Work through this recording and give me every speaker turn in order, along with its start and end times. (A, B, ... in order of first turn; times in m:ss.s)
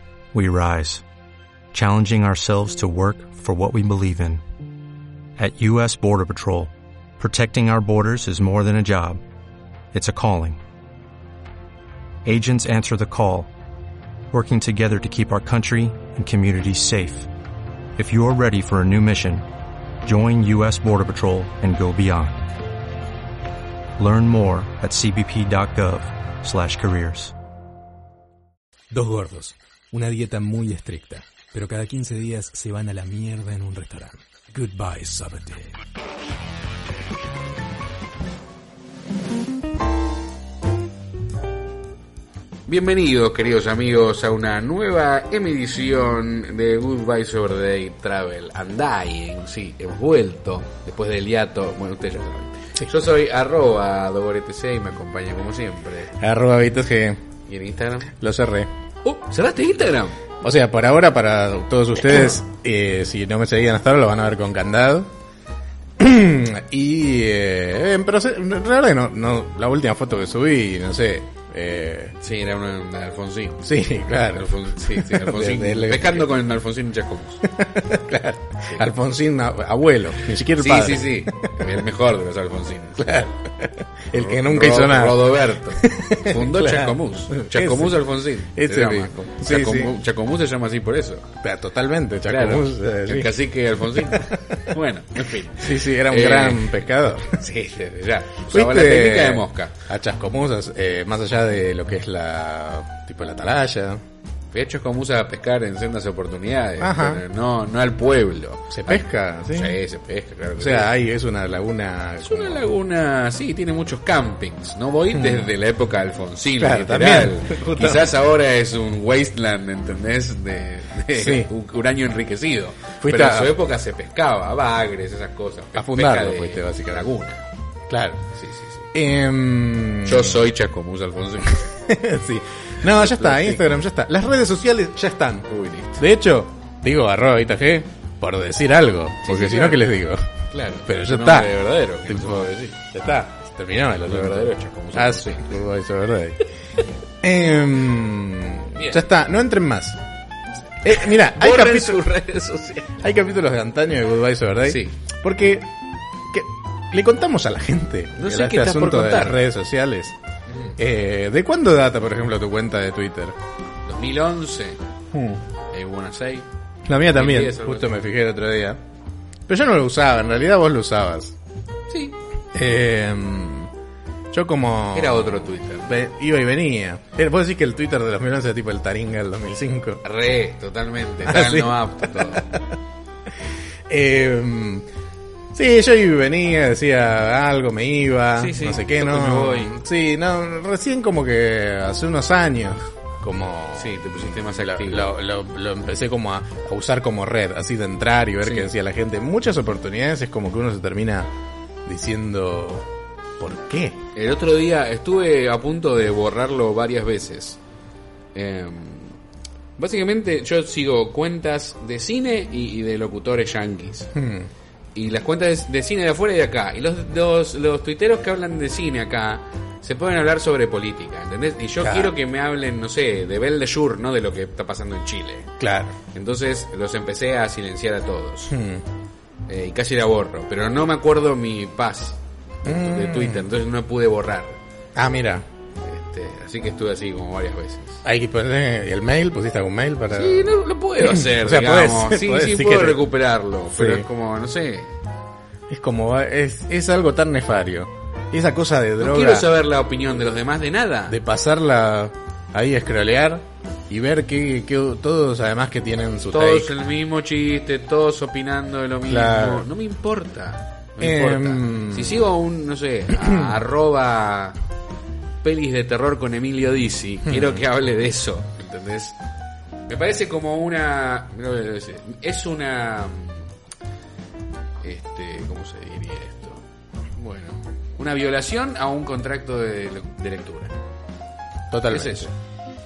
0:00.3-0:01.0 A
0:01.7-0:04.4 A
0:05.4-0:09.2 A
0:09.9-0:10.6 A
0:12.2-0:13.5 A
0:14.3-0:17.3 A
0:18.0-0:19.4 A
0:20.0-0:22.5 A
0:24.0-0:27.3 A
0:28.9-0:35.7 B
0:42.7-0:56.1 C
0:56.2-0:57.2 D
0:57.5-0:58.1 C
0:58.2-0:58.7 D
0:59.0-1:00.2 C
1:00.4-1:05.1 D
1:06.0-1:12.1 D
1:12.2-1:13.6 C
1:13.6-1:16.2 D
1:14.3-1:17.4 C
1:17.6-1:21.6 D
1:20.5-1:23.1 C
1:23.0-1:28.0 D
1:24.1-1:31.3 C
1:28.5-1:29.9 D
1:31.4-1:33.3 D
1:32.3-1:36.8 C
1:34.0-1:34.3 D
1:35.6-1:37.3 D
1:37.3-1:39.8 C
1:38.5-1:44.0 D
1:44.5-1:50.9 C
1:46.8-1:47.2 D
1:48.7-1:49.8 D
1:50.6-1:52.6 D
1:52.2-2:07.4 C
1:55.1-1:55.5 D
1:56.6-1:58.2 D
2:01.1-2:01.5 D
2:03.0-2:03.5 D
2:05.8-2:07.1 D
2:07.9-2:08.2 D
2:08.3-2:08.9 C
2:08.9-2:10.4 D
2:10.0-2:11.6 C
2:11.7-2:15.5 D
2:12.9-2:13.6 C
2:15.5-2:16.0 C
2:16.0-2:20.2 D
2:19.2-2:19.9 C
2:20.5-2:22.8 C
2:20.8-2:21.5 D
2:22.1-2:26.4 D
2:24.0-2:25.5 C
2:27.2-2:30.0 D
2:28.7-2:29.0 C
2:30.8-2:32.0 D
2:30.9-2:32.9 C
2:32.9-2:35.7 D
2:34.6-2:35.0 C
2:36.3-2:40.1 D
2:38.2-2:39.4 C
2:40.5-2:40.8 C
2:40.8-2:43.3 D
2:43.8-2:44.8 C
2:45.1-2:45.4 D
2:45.7-2:46.5 C
2:46.8-2:48.8 D
2:47.1-2:47.9 C
2:49.5-2:51.3 D
2:51.9-2:52.2 C
2:52.5-2:53.7 D
2:54.3-3:00.0 D
2:54.9-2:55.9 C
3:00.0-3:02.5 C
3:01.2-3:02.6 D
3:03.9-3:04.8 D
3:05.5-3:21.3 D
3:08.4-3:09.7 C
3:13.7-3:15.1 C
3:18.4-3:18.7 C
3:21.8-3:22.9 D
3:23.4-3:24.0 D
3:24.1-3:27.6 C
3:28.3-3:29.2 C
3:29.8-3:34.1 C
3:34.1-3:34.5 D
3:34.9-3:48.5 C
3:41.8-3:42.1 D
3:45.6-3:45.9 D
3:48.5-3:48.8 D
3:49.5-3:54.6 C
3:52.6-3:53.5 D
3:55.0-3:55.4 D
3:55.8-3:58.0 C
3:58.0-4:03.0 D
4:00.1-4:04.9 C
4:03.7-4:04.0 D
4:05.7-4:09.5 D
4:09.0-4:11.2 C
4:11.1-4:16.7 D
4:16.3-4:24.6 C
4:19.1-4:19.7 D
4:21.0-4:22.3 D
4:25.4-4:29.2 C
4:27.3-4:27.6 D
4:29.9-4:33.5 C
4:34.8-4:36.6 C
4:37.2-4:40.7 C
4:41.7-4:42.3 D
4:41.9-4:42.3 C